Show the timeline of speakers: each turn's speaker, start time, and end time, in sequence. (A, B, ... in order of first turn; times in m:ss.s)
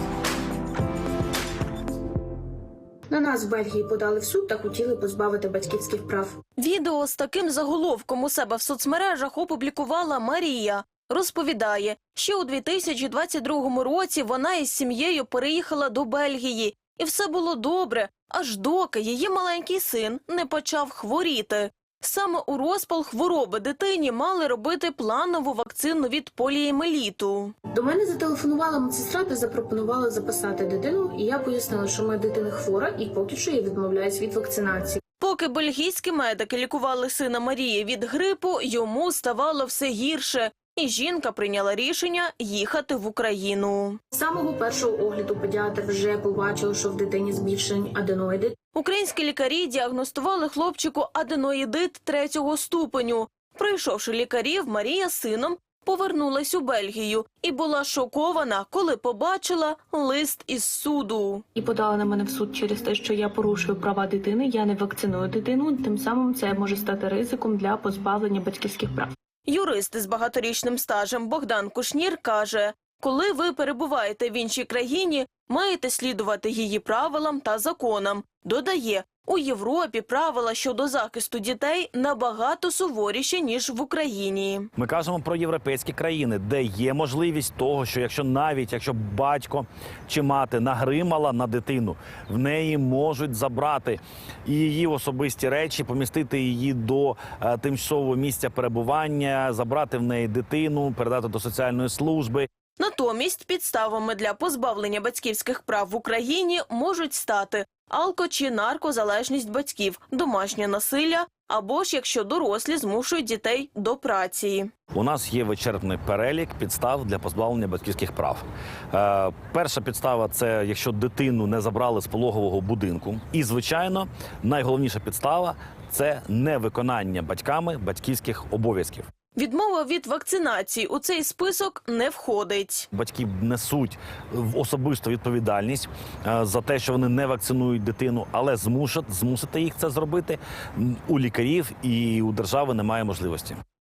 0:03.1-0:06.4 A
0:06.6-0:27.5 B
0:27.7-0:35.0 A
0:35.2-0:44.0 B
0:44.1-0:48.6 A
0:48.7-1:01.4 B
1:01.6-1:09.1 A
1:09.5-1:24.7 B
1:24.8-1:42.5 C
1:42.8-1:54.7 B
1:54.9-2:09.1 C
2:09.3-2:12.9 B
2:12.9-2:23.6 C